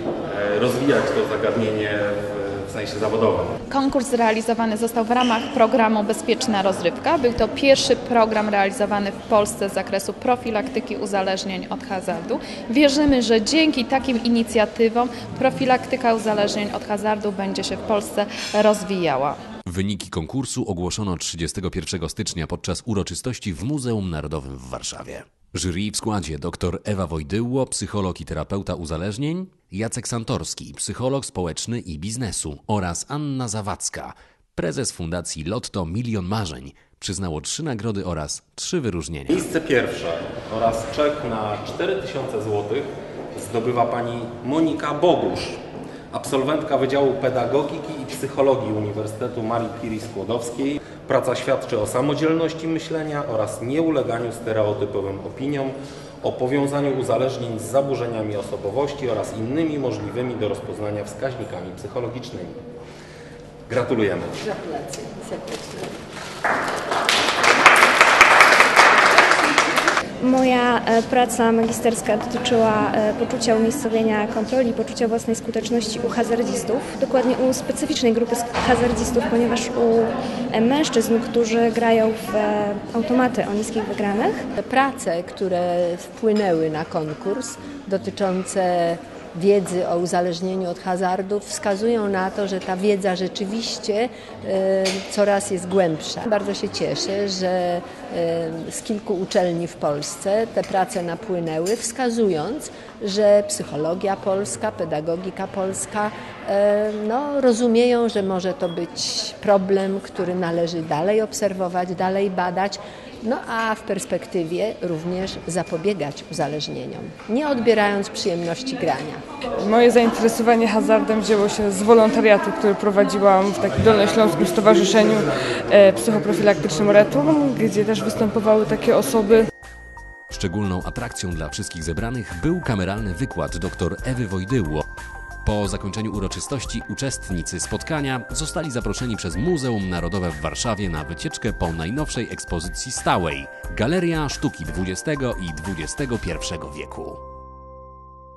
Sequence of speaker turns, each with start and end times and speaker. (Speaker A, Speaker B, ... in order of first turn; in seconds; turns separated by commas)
Speaker A: 0.3-3.5, Speaker B: 3.7-19.4, Speaker C: 19.6-39.4, Speaker A: 39.3-62.6, Speaker A: 63.7-64.4, Speaker D: 64.4-65.9, Speaker E: 70.2-84.3, Speaker D: 84.6-119.2, Speaker F: 119.6-129.5, Speaker C: 130.3-134.8, Speaker C: 135.4-147.2